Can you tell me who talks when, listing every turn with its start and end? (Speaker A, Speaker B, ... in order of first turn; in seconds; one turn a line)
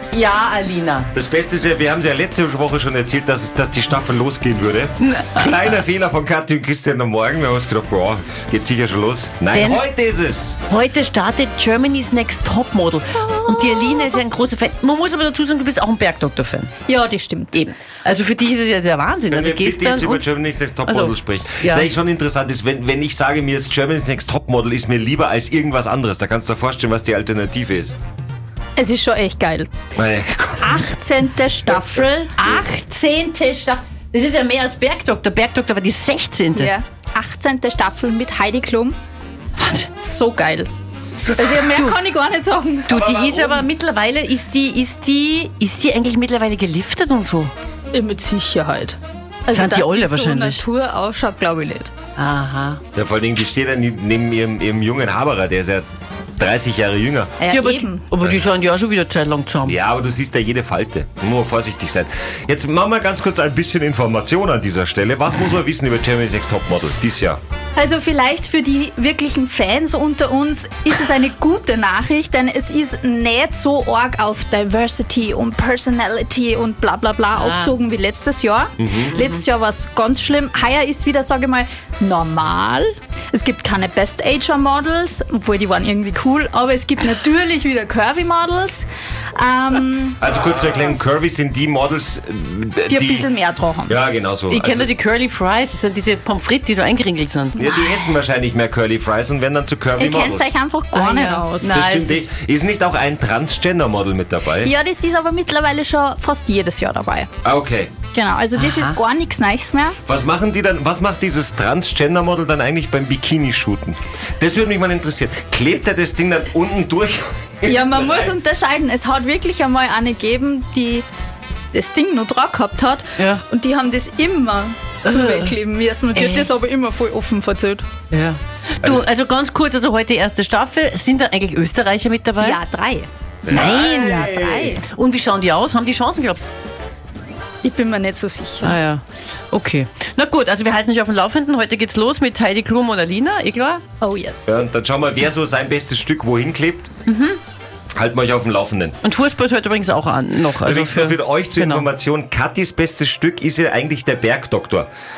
Speaker A: 0.1-1.1
Speaker B: 1.1-10.6
Speaker A: 9.5-9.8
Speaker A: 10.7-16.7
Speaker C: 13.2-14.1
Speaker C: 16.9-17.6
Speaker A: 17.5-20.2
Speaker B: 19.3-27.9
Speaker A: 20.9-21.9
Speaker C: 28.8-29.7
Speaker B: 29.9-30.9
Speaker C: 30.6-32.4
Speaker A: 32.4-36.7
Speaker C: 36.5-39.0
Speaker A: 39.6-39.9
Speaker C: 40.0-40.7
Speaker C: 41.3-43.5
Speaker A: 41.7-42.0
Speaker A: 42.9-47.5
Speaker C: 47.9-51.9
Speaker A: 49.5-50.6
Speaker A: 52.1-52.8
Speaker B: 52.9-55.9
Speaker B: 56.4-57.3
Speaker C: 57.4-58.0
Speaker A: 57.5-59.8
Speaker B: 58.2-58.5
Speaker B: 59.6-67.4
Speaker C: 67.7-90.2
Speaker A: 77.3-77.7
Speaker B: 78.8-79.1
Speaker A: 79.1-79.4
Speaker B: 90.2-93.3
Speaker C: 92.9-94.0
Speaker B: 93.9-94.9
Speaker A: 94.5-97.7
Speaker B: 97.5-100.5
Speaker C: 100.0-101.8
Speaker A: 100.9-102.2
Speaker B: 101.7-104.7
Speaker C: 104.6-107.3
Speaker B: 107.4-107.9
Speaker C: 108.1-110.0
Speaker A: 108.5-109.0
Speaker B: 110.0-118.3
Speaker C: 117.7-121.0
Speaker C: 121.7-127.9
Speaker A: 123.2-123.4
Speaker A: 125.0-125.5
Speaker A: 126.1-126.5
Speaker A: 128.1-132.6
Speaker C: 132.4-133.1
Speaker B: 133.4-134.7
Speaker A: 133.5-136.4
Speaker C: 133.7-134.8
Speaker C: 137.6-138.8
Speaker A: 138.6-143.8
Speaker C: 144.0-144.6
Speaker B: 144.5-146.9
Speaker A: 147.1-147.4
Speaker B: 147.9-149.0
Speaker A: 149.0-151.9
Speaker B: 150.6-154.9